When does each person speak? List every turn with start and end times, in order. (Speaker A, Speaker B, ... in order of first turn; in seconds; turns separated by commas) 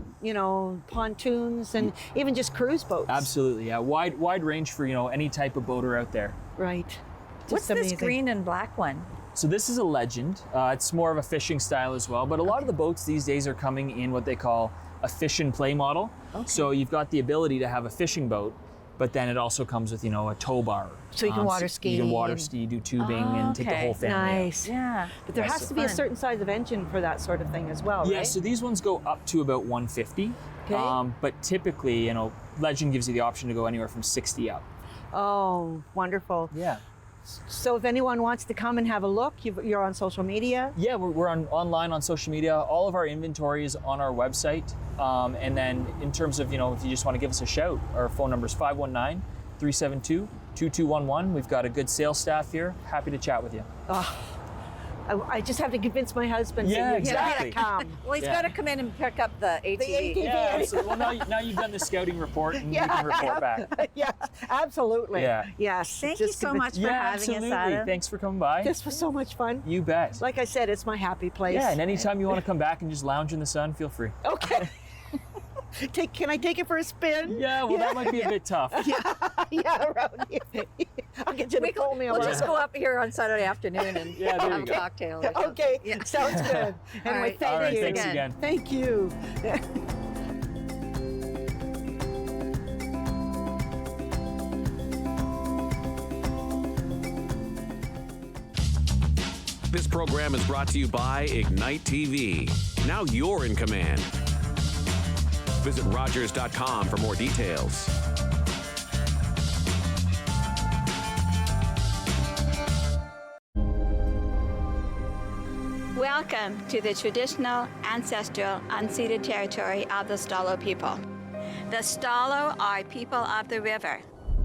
Speaker A: 0.2-3.3, Speaker B: 3.1-6.4, Speaker A: 6.6-8.2, Speaker C: 7.5-9.1, Speaker B: 9.3-24.5, Speaker C: 16.4-16.7, Speaker A: 21.1-22.5, Speaker C: 23.0-24.0, Speaker A: 24.0-28.4, Speaker C: 24.6-25.2, Speaker B: 25.4-25.8, Speaker C: 25.7-26.0, Speaker B: 28.0-34.7, Speaker A: 30.7-31.0, Speaker A: 35.1-36.5, Speaker B: 36.5-36.8, Speaker A: 37.3-40.8, Speaker B: 40.8-53.7, Speaker A: 53.9-54.4, Speaker A: 55.1-58.0, Speaker B: 56.6-57.6, Speaker C: 57.0-60.3, Speaker B: 58.2-58.5, Speaker A: 59.8-61.3, Speaker B: 60.2-63.8, Speaker A: 62.6-66.7, Speaker B: 65.1-65.5, Speaker C: 66.0-68.0, Speaker B: 66.7-68.8, Speaker A: 68.6-72.1, Speaker B: 69.6-70.2, Speaker B: 71.5-74.6, Speaker A: 74.2-74.7, Speaker A: 75.8-82.7, Speaker B: 77.3-78.9, Speaker C: 81.5-88.3, Speaker B: 82.1-82.5, Speaker B: 84.1-84.8, Speaker A: 84.2-89.6, Speaker B: 87.5-88.4, Speaker D: 99.7-104.1, Speaker D: 105.6-107.9, Speaker E: 116.0-121.0, Speaker E: 121.7-124.0